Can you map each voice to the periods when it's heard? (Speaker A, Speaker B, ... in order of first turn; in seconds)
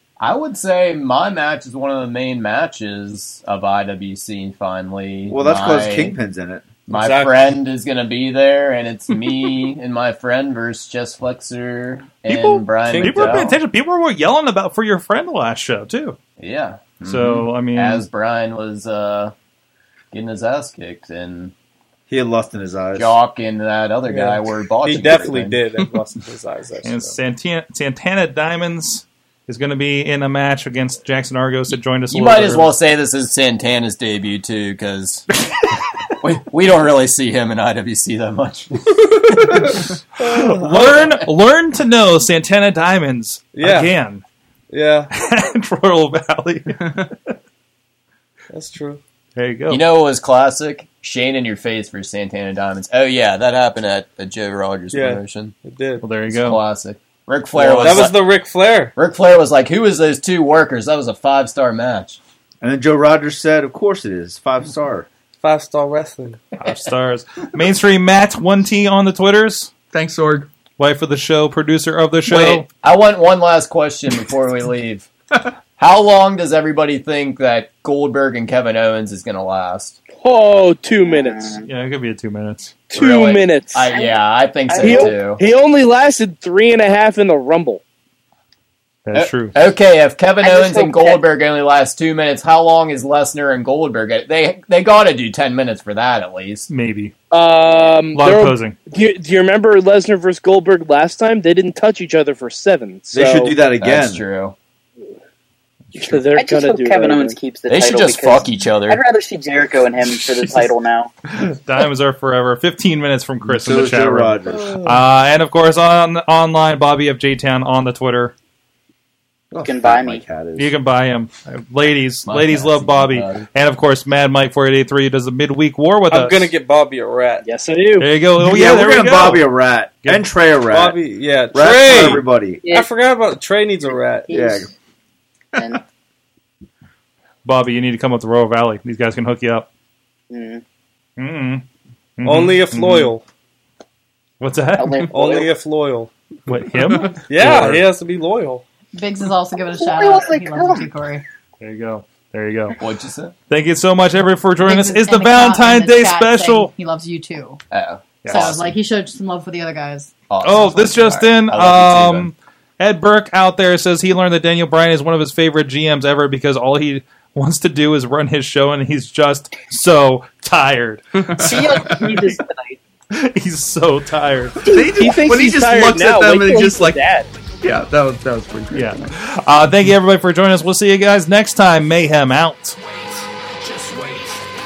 Speaker A: 0.2-6.2, 6.9-13.6, 16.4-19.3, 20.1-21.5, 22.9-25.6, 32.1-35.3, 36.2-39.9, 40.9-41.2, 49.7-55.6, 56.3-62.2, 72.3-75.1, 75.8-80.0, 82.9-85.4, 89.1-96.7, 103.8-104.5, 107.7-109.0, 122.2-123.5, 147.4-147.8, 152.8-153.3, 157.7-158.8, 160.3-162.3
Speaker B: 5.3-6.7, 22.1-23.1, 62.6-65.1, 103.1-104.2, 113.5-114.8, 119.5-120.7, 128.4-131.0, 131.5-132.6, 134.3-134.7
Speaker C: 6.9-7.5, 12.3-13.6, 24.0-27.2, 39.5-41.2, 43.5-43.9, 44.7-45.1, 48.5-49.0, 54.9-56.1, 57.5-58.9, 65.4-66.5, 126.1-127.5, 130.7-134.3, 142.2-143.2, 145.1-146.1, 147.0-148.6
Speaker D: 12.3-16.2, 17.0-18.0, 26.8-32.7, 39.5-44.2, 45.1-46.9, 49.4-49.8, 56.0-56.6, 66.6-69.7, 70.8-72.7, 81.7-82.8, 89.1-89.5, 96.7-97.1, 98.2-98.8, 111.4-118.3, 120.6-126.5, 128.0-129.5, 137.4-139.7, 141.2-141.7, 142.2-143.1, 144.4-145.1, 146.5-147.8, 151.6-152.8, 153.5-156.7, 158.2-158.5, 160.4-172.3, 173.1-174.6, 178.7-182.8, 183.7-184.2
Speaker E: 69.9-70.5, 174.7-177.0, 177.6-179.1
Speaker F: 80.2-81.6, 82.9-83.9, 84.8-87.8, 97.3-103.6, 106.0-107.4, 127.4-128.1, 174.7-177.3
Speaker G: 81.0-81.7, 83.9-85.2, 90.4-91.2, 106.4-111.1, 119.6-120.2, 132.6-132.9, 134.3-134.7, 135.6-135.8, 140.3-140.6, 144.8-145.5, 149.7-150.9, 171.4-172.8
Speaker H: 148.9-151.2, 154.6-157.6, 158.3-160.1